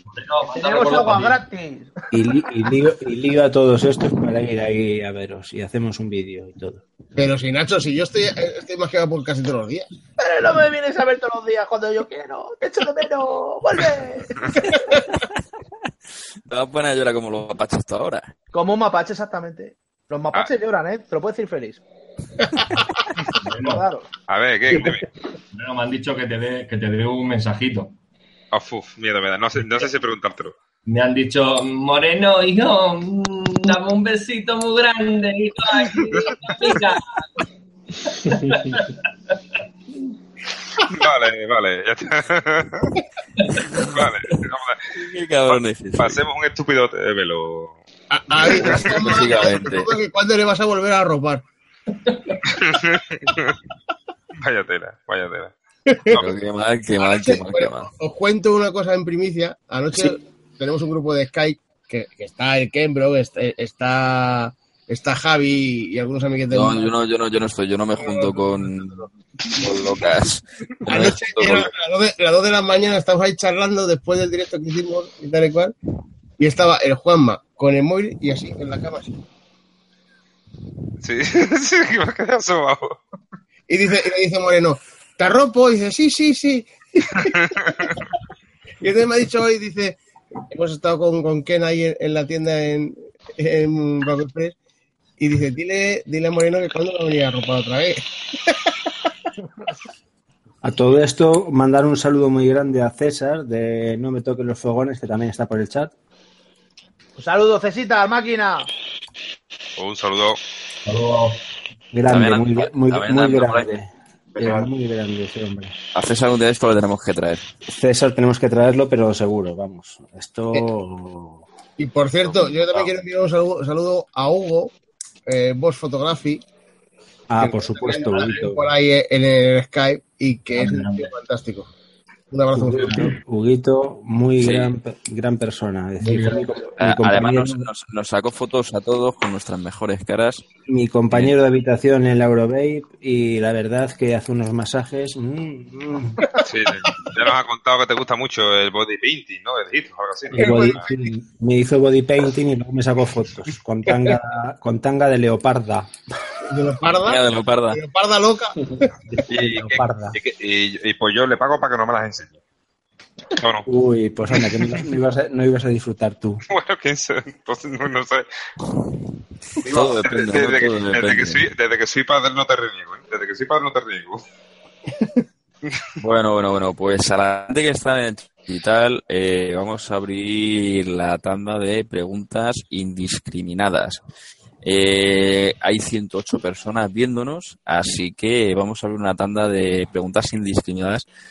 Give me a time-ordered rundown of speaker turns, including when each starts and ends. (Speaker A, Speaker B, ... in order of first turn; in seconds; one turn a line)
Speaker A: 0.1-1.4
Speaker B: 0.5-1.9
Speaker C: 2.1-6.8
Speaker D: 7.2-9.9
Speaker B: 10.2-14.4
Speaker E: 16.4-18.3
Speaker B: 18.5-21.8
Speaker A: 23.4-23.8
Speaker B: 23.6-24.1
Speaker F: 24.3-25.1
Speaker A: 25.5-27.9
Speaker F: 28.5-30.5
Speaker A: 29.6-29.9
Speaker A: 30.9-37.4
Speaker A: 38.2-38.9
Speaker F: 40.9-42.9
Speaker A: 43.6-43.9
Speaker F: 43.9-44.9
Speaker E: 45.0-46.2
Speaker F: 45.5-47.8
Speaker D: 48.1-51.4
Speaker E: 48.6-49.9
Speaker F: 48.8-49.5
Speaker A: 52.1-52.4
Speaker F: 52.6-53.5
Speaker F: 54.4-55.5
Speaker D: 55.9-56.2
Speaker E: 56.1-57.9
Speaker D: 57.0-66.9
Speaker E: 66.5-71.7
Speaker D: 68.0-69.1
Speaker D: 70.8-75.7
Speaker D: 76.4-79.2
Speaker F: 81.0-83.0
Speaker D: 83.7-88.0
Speaker F: 87.4-88.0
Speaker D: 88.8-90.0
Speaker D: 90.5-94.5
Speaker D: 95.2-98.9
Speaker C: 100.6-105.9
Speaker B: 107.2-108.7
Speaker F: 109.8-110.4
Speaker A: 110.8-111.4
Speaker C: 111.9-115.7
Speaker E: 112.0-113.7
Speaker E: 115.9-117.5
Speaker C: 117.7-121.4
Speaker D: 121.8-124.7
Speaker D: 125.2-126.4
Speaker C: 127.3-128.7
Speaker D: 127.4-131.7
Speaker A: 130.5-131.1
Speaker D: 132.3-133.0
Speaker A: 132.6-133.2
Speaker C: 132.6-137.7
Speaker E: 134.4-134.7
Speaker A: 136.0-136.5
Speaker E: 136.8-140.4
Speaker C: 140.7-146.2
Speaker F: 146.4-150.8
Speaker C: 150.3-155.9
Speaker D: 150.3-151.0
Speaker D: 156.5-158.5
Speaker E: 157.0-157.8
Speaker C: 159.1-160.2
Speaker F: 159.3-162.4
Speaker F: 163.4-163.6
Speaker C: 163.7-166.4
Speaker F: 166.5-168.2
Speaker E: 169.7-171.4
Speaker F: 169.8-174.2
Speaker E: 176.0-184.0
Speaker E: 184.6-191.1